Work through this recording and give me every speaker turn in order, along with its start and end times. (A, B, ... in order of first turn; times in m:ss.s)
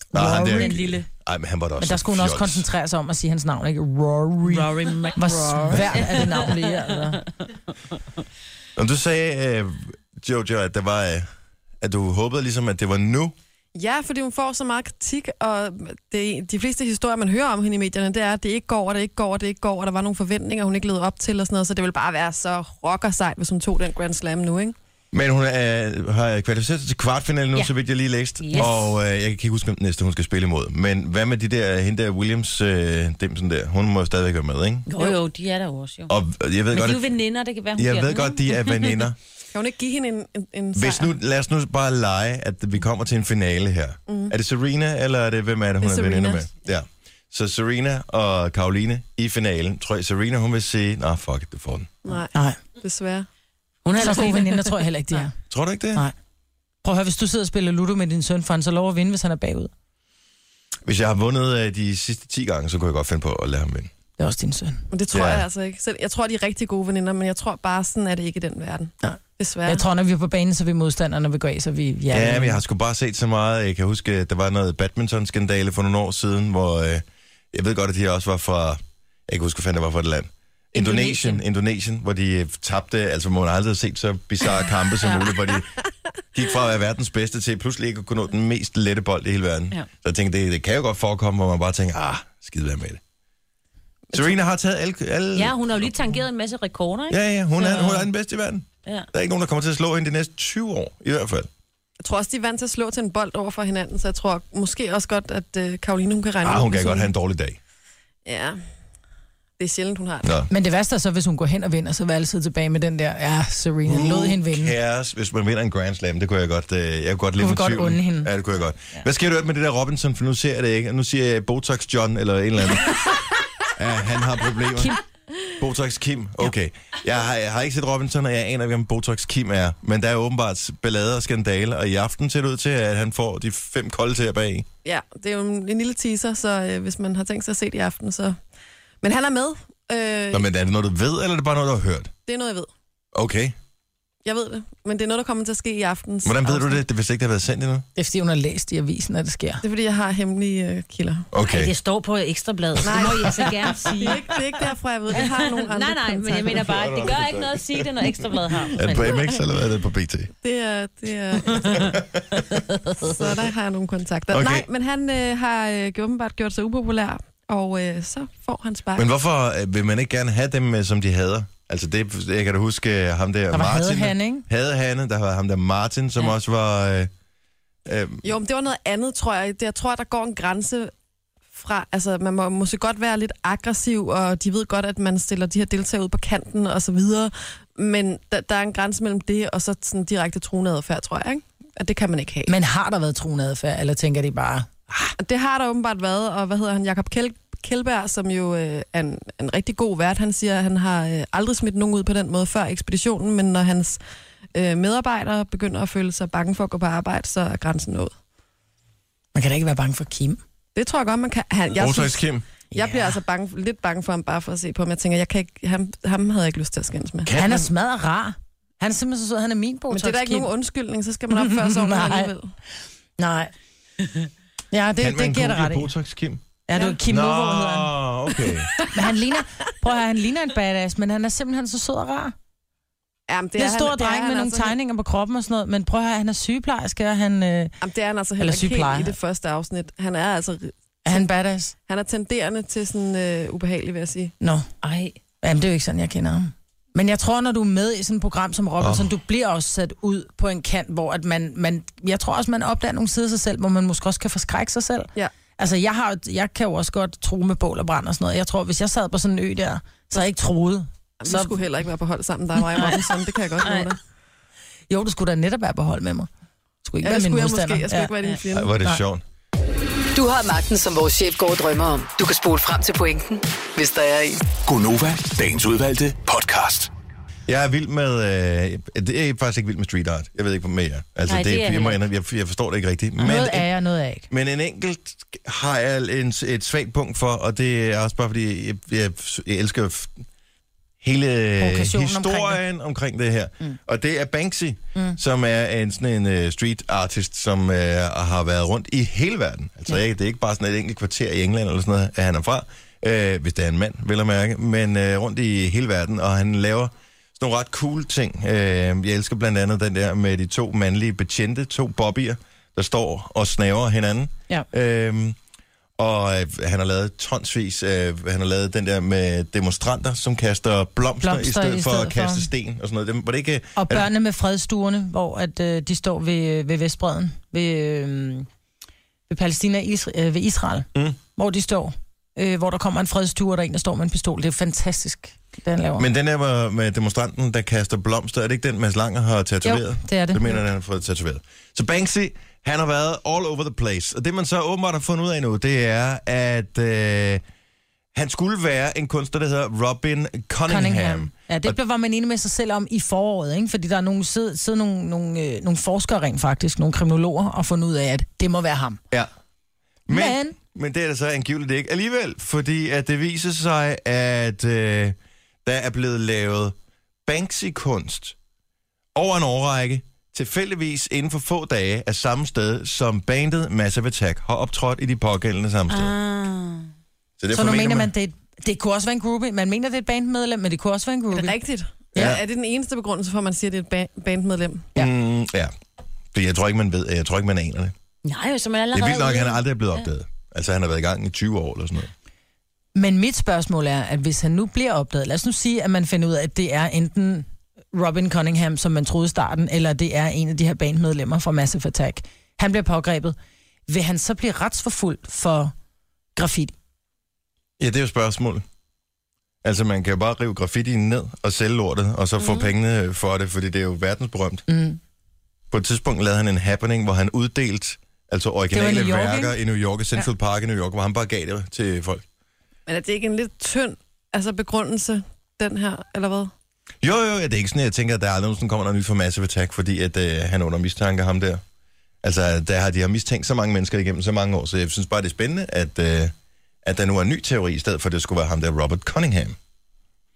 0:00.1-0:02.6 A
0:00.1-0:00.9 B
0:00.3-0:01.0 C
0:01.8-0:07.2 B
0:04.4-0:07.3 C
0:08.8-0:11.3 A
0:11.8-0:13.3 A
0:13.7-0:24.7 D
0:25.1-0:34.9 A
0:28.4-0:29.0 C
0:34.9-0:36.1 C
0:36.1-0:37.0 A
0:36.7-0:39.0 C
0:37.8-0:39.2 A
0:39.5-0:41.1 D
0:40.7-0:51.9 A
0:44.1-0:44.3 D
0:45.8-0:46.4 D
0:52.0-0:53.3 D
0:53.8-0:54.7 C
0:54.0-0:55.3 B
0:54.0-0:54.3 D
0:55.5-0:56.0 A
0:56.8-0:59.7 B
1:00.8-1:03.9 A
1:04.2-1:04.8 B
1:04.9-1:09.8 D
1:05.1-1:05.5 A
1:09.0-1:12.6 B
1:12.1-1:25.7 A
1:20.7-1:21.4 C
1:26.3-1:33.0 A
1:34.1-1:35.9 A
1:35.3-1:38.1 C
1:37.1-1:41.5 A
1:42.0-1:47.1 D
1:46.4-1:47.6 A
1:48.2-1:48.6 D
1:49.6-1:50.3 D
1:50.2-1:50.5 A
1:50.5-1:54.7 B
1:53.8-2:03.1 A
1:57.4-1:58.3 B
2:03.7-2:05.0 A
2:05.6-2:14.7 A
2:14.8-2:18.4 D
2:19.0-2:20.4 D
2:20.3-2:22.1 A
2:22.2-2:22.7 D
2:23.1-2:23.6 A
2:24.2-2:26.8 D
2:26.2-2:27.8 A
2:28.0-2:29.6 B
2:29.6-2:31.3 D
2:31.3-2:31.7 A
2:31.4-2:34.3 C
2:32.8-2:36.7 D
2:32.9-2:33.4 A
2:35.1-2:39.3 C
2:36.5-2:38.1 A
2:38.7-2:40.3 A
2:40.4-2:42.0 D
2:41.8-2:42.4 A
2:42.5-2:43.1 C
2:43.0-2:49.1 D
2:44.3-2:44.7 A
2:48.9-2:57.1 A
2:53.5-2:54.4 B
2:57.8-2:58.3 A
2:58.2-3:00.9 D
3:01.5-3:12.5 D
3:12.5-3:15.1 B
3:15.2-3:24.0 D
3:24.5-3:28.1 D
3:29.3-3:30.4 B
3:30.7-3:37.3 D
3:31.7-3:32.4 A
3:32.7-3:33.2 B
3:37.2-3:37.7 A
3:37.3-3:40.5 B
3:39.9-3:42.5 D
3:41.3-3:42.3 B
3:43.2-3:43.5 B
3:44.7-3:45.9 B
3:45.0-3:46.4 A
3:46.6-3:47.9 B
3:47.0-3:48.7 A
3:48.9-3:52.3 B
3:53.3-3:54.7 D
3:53.6-3:57.7 B
3:57.8-4:01.3 D
3:58.4-3:59.1 B
4:01.0-4:01.7 B
4:01.9-4:04.3 D
4:04.4-4:04.7 B
4:04.8-4:05.2 C
4:05.4-4:21.6 B
4:08.8-4:09.1 A
4:21.2-4:24.0 D
4:22.7-4:23.0 C
4:23.6-4:23.9 C
4:24.9-4:26.3 B
4:26.8-4:28.1 B
4:27.0-4:28.7 D
4:28.5-4:29.2 A
4:30.1-4:34.4 E
4:34.6-4:36.9 F
4:37.5-4:43.7 A
4:41.3-4:42.0 C
4:43.2-4:44.3 B
4:44.3-4:50.2 A
4:51.0-5:15.4 A
4:51.6-4:52.6 B
5:16.0-5:24.1 A
5:21.2-5:22.5 B
5:23.8-5:28.5 B
5:29.3-5:36.0 B
5:36.0-5:47.4 A
5:39.6-5:40.6 B
5:48.1-5:51.8 A
5:50.7-5:59.0 B
6:00.1-6:06.7 A
6:00.1-6:00.6 B
6:07.2-6:08.4 A
6:09.1-6:16.1 A
6:15.9-6:16.9 C
6:17.4-6:18.1 A
6:17.5-6:21.6 B
6:21.3-6:24.9 D
6:22.2-6:22.4 A
6:25.0-6:25.7 A
6:26.3-6:27.9 A
6:28.2-6:30.0 C
6:28.9-6:32.1 A
6:32.9-6:43.4 B
6:43.9-6:45.7 B
6:46.4-6:46.7 B
6:47.8-6:48.6 A
6:49.6-6:54.6 A
6:52.4-6:52.7 C
6:54.7-6:55.0 B
6:55.7-7:02.2 A
6:58.7-6:59.6 B
7:02.9-7:06.5 D
7:07.0-7:11.6 A
7:12.2-7:19.6 A